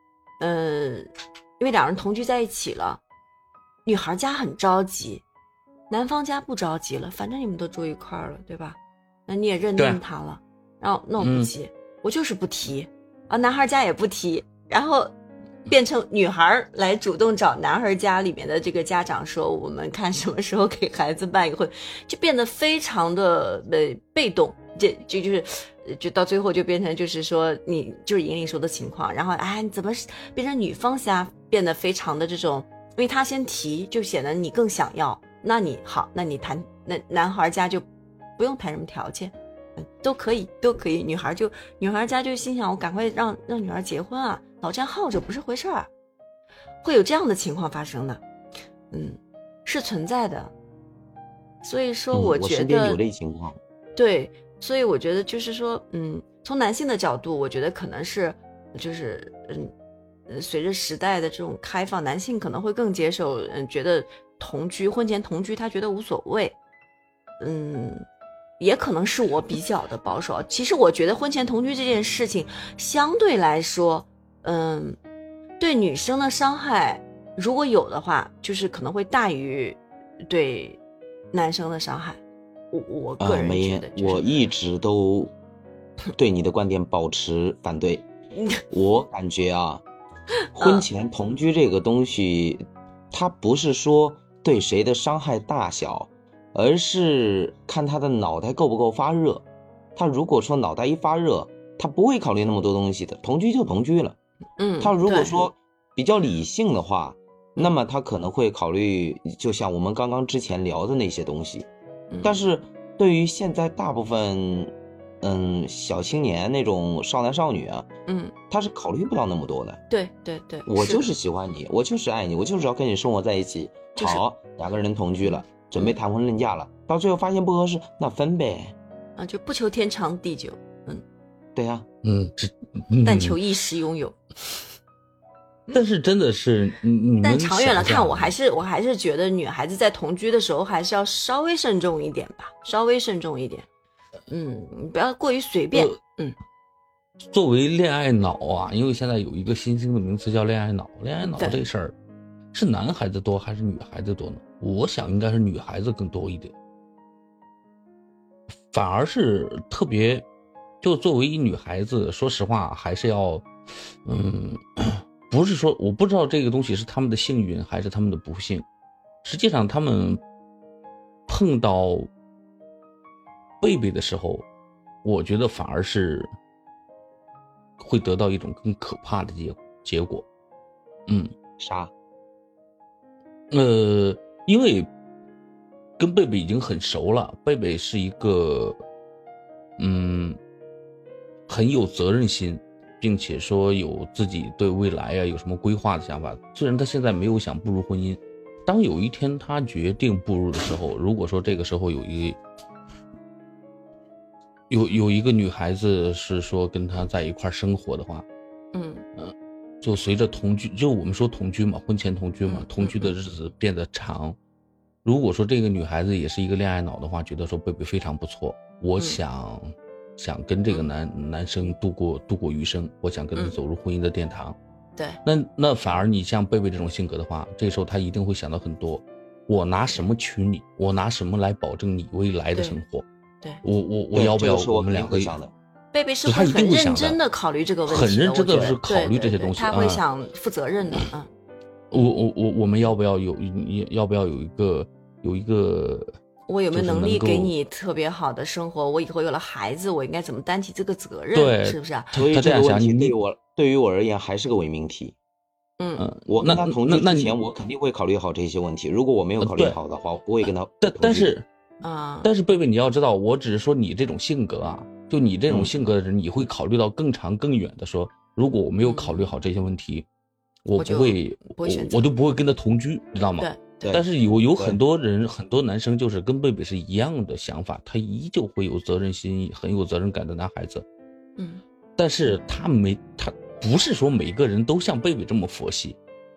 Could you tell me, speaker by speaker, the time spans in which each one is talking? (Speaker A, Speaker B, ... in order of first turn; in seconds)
Speaker A: 0.4-1.1, 1.6-3.0, 3.9-5.2, 5.9-15.1, 15.7-37.9, 38.4-45.9, 46.8-48.2, 48.9-50.5, 51.6-53.0, 54.0-59.7, 60.3-66.6, 67.4-68.0, 68.6-75.0, 75.6-80.8, 81.3-84.3, 88.3-88.6, 90.5-90.8, 104.6-105.4, 112.1-112.4, 118.1-118.3, 119.9-121.1, 124.0-124.2, 129.2-131.0, 133.1-134.2, 137.2-143.7, 144.3-146.4, 151.4-151.6, 208.7-209.0, 212.5-213.2, 232.6-232.8, 235.9-241.3, 246.5-252.1, 255.8-256.1, 261.8-262.3, 268.8-269.3, 270.8-272.1, 273.4-273.8
Speaker B: 9.8-10.0, 11.2-11.5, 132.0-133.4, 135.7-138.3, 147.3-151.9, 152.5-156.5, 158.7-160.3, 160.8-163.5, 164.1-168.7, 169.2-170.2, 171.3-172.1, 173.6-174.4, 175.0-176.3, 177.8-180.3, 183.5-184.9, 186.0-188.8, 189.8-190.4, 191.5-202.4, 204.7-208.3, 209.2-214.4, 215.1-224.6, 225.2-233.1, 233.6-235.3, 236.2-237.2, 237.9-240.0, 241.9-246.1, 246.7-247.5, 251.3-253.1, 256.0-257.4, 259.4-259.8, 260.8-261.5, 262.2-270.1, 270.6-280.9, 282.0-286.0
Speaker C: 52.1-53.6, 83.2-85.3, 86.2-88.1, 88.7-89.8, 90.5-99.4, 100.0-104.2, 104.8-111.7, 112.2-114.7, 115.2-117.9, 118.5-119.8, 120.7-128.7, 131.6-131.9, 181.6-181.9, 234.1-235.5, 252.2-255.2, 256.3-261.3, 273.8-274.8